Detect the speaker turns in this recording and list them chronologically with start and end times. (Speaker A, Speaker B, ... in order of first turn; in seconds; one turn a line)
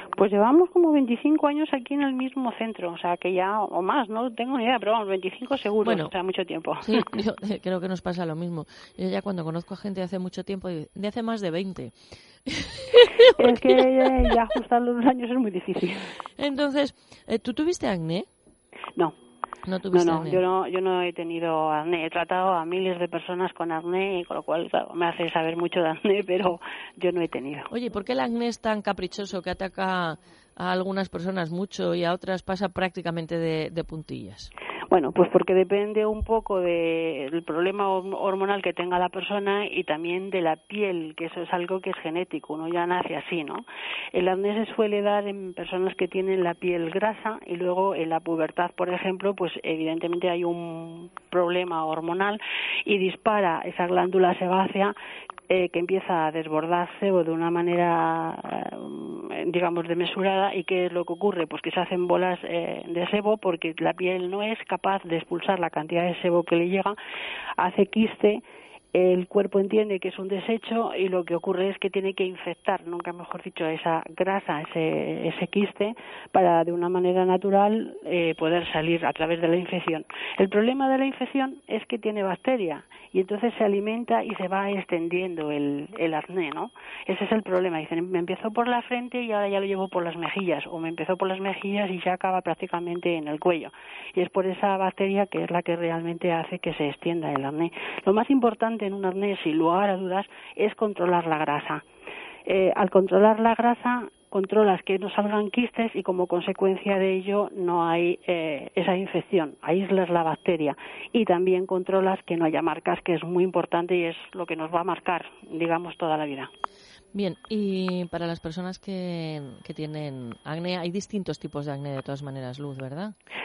Speaker A: 0.2-7.0
Speaker B: 5.8-6.1
Speaker B: 6.8-11.9
Speaker B: 12.5-13.7
Speaker A: 13.4-16.0
Speaker B: 16.4-18.3
Speaker B: 19.7-20.4
Speaker A: 19.9-27.7
Speaker B: 27.7-34.5
Speaker A: 34.9-54.9
Speaker A: 55.5-67.0
Speaker A: 67.6-68.4
Speaker A: 68.9-101.8
Speaker A: 102.5-116.5
Speaker B: 117.1-123.2